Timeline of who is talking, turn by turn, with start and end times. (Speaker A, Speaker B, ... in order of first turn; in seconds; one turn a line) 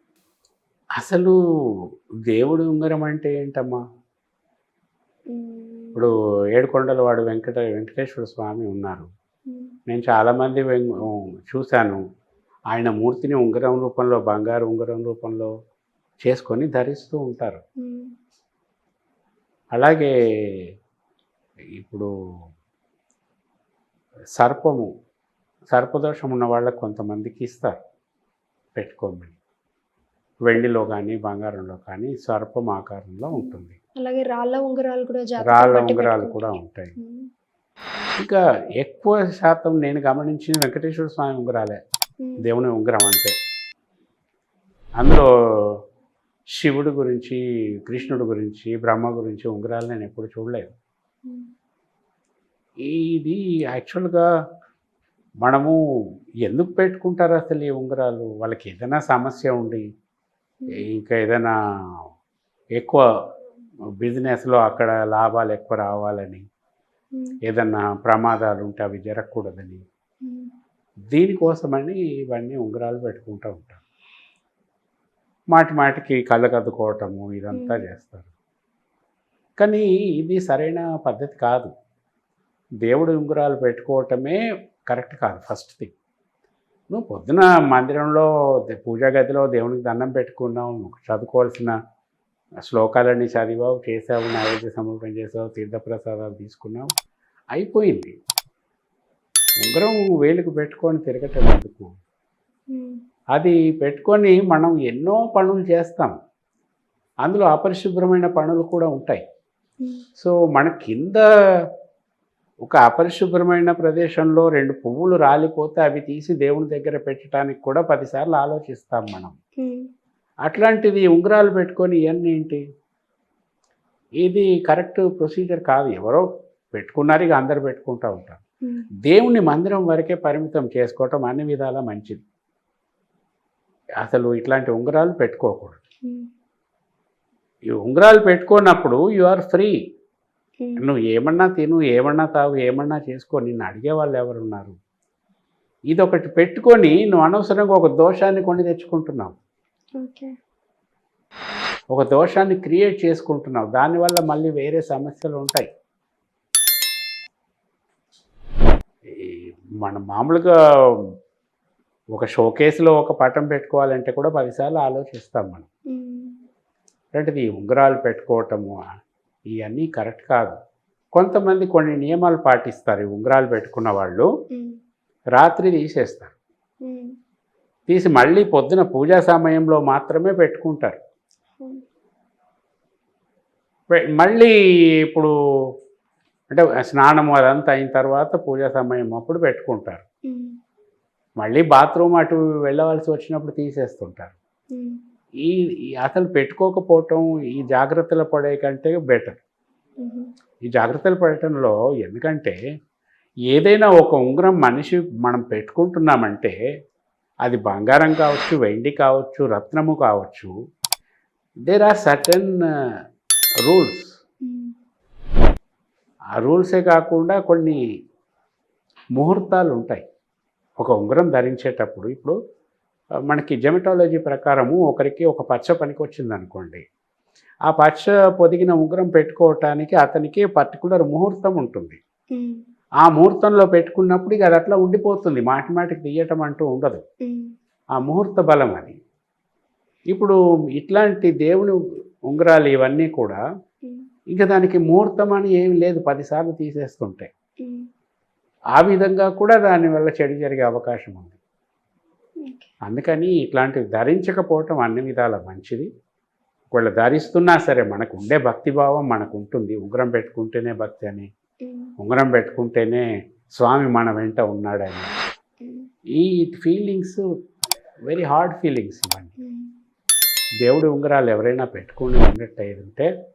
Speaker A: 1.0-1.4
Speaker A: 2.3-3.8
Speaker B: 5.3-6.1
Speaker A: 6.0-9.1
Speaker A: 9.9-12.0
Speaker A: 12.7-15.5
Speaker A: 16.2-17.6
Speaker B: 17.8-18.1
Speaker A: 19.7-20.1
Speaker A: 21.8-22.1
Speaker A: 24.4-24.9
Speaker A: 25.7-27.8
Speaker A: 28.8-29.4
Speaker A: 30.4-33.8
Speaker B: 33.3-37.3
Speaker A: 35.4-36.9
Speaker A: 38.2-41.8
Speaker A: 42.4-43.3
Speaker A: 45.0-45.8
Speaker A: 46.5-50.7
Speaker B: 51.2-51.5
Speaker A: 52.8-54.2
Speaker A: 55.4-55.8
Speaker A: 56.4-59.9
Speaker A: 60.7-62.0
Speaker A: 62.8-63.0
Speaker A: 64.0-66.4
Speaker A: 67.5-69.8
Speaker B: 70.2-70.5
Speaker A: 71.1-73.8
Speaker A: 75.5-78.3
Speaker B: 77.5-77.8
Speaker A: 79.6-81.7
Speaker A: 82.8-85.9
Speaker A: 86.9-91.7
Speaker A: 92.6-96.9
Speaker A: 97.5-98.1
Speaker A: 99.6-101.9
Speaker B: 102.7-103.0
Speaker A: 103.3-106.1
Speaker A: 107.2-109.2
Speaker A: 110.2-111.2
Speaker A: 112.6-119.4
Speaker B: 119.6-119.9
Speaker A: 120.5-122.6
Speaker A: 124.2-128.4
Speaker A: 129.0-132.2
Speaker A: 134.0-135.8
Speaker A: 137.7-139.7
Speaker A: 140.8-144.8
Speaker A: 145.9-149.3
Speaker B: 150.0-150.3
Speaker A: 151.9-155.7
Speaker A: 159.2-160.9
Speaker A: 162.1-165.7
Speaker B: 165.9-166.4
Speaker A: 167.1-168.8
Speaker A: 169.5-170.6
Speaker A: 171.1-174.3
Speaker B: 174.5-174.8
Speaker A: 175.3-176.3
Speaker B: 176.8-177.1
Speaker A: 177.9-181.0
Speaker A: 183.9-184.5
Speaker A: 185.1-185.7
Speaker A: 186.5-190.0
Speaker B: 190.3-190.6
Speaker A: 191.4-194.3
Speaker B: 194.7-195.0
Speaker A: 195.4-199.4
Speaker B: 200.0-200.3
Speaker A: 200.7-202.6
Speaker A: 203.5-206.6
Speaker A: 207.4-210.5
Speaker A: 211.7-212.6
Speaker A: 213.7-214.1
Speaker B: 214.4-214.7
Speaker A: 216.4-217.8
Speaker A: 219.2-220.0
Speaker A: 220.8-222.3
Speaker A: 223.3-226.8
Speaker A: 227.7-232.0
Speaker B: 232.3-232.6
Speaker A: 233.0-237.0
Speaker B: 237.2-237.5
Speaker A: 238.0-239.0
Speaker A: 240.1-241.8
Speaker A: 242.3-243.4
Speaker A: 244.3-247.3
Speaker B: 247.6-247.9
Speaker A: 248.8-251.4
Speaker B: 252.4-252.7
Speaker A: 252.8-255.9
Speaker A: 256.7-261.3
Speaker B: 261.6-261.9
Speaker A: 262.0-263.1
Speaker A: 263.6-265.1
Speaker B: 265.6-265.9
Speaker A: 266.1-267.2
Speaker A: 268.1-269.3
Speaker B: 269.4-269.7
Speaker A: 270.6-273.1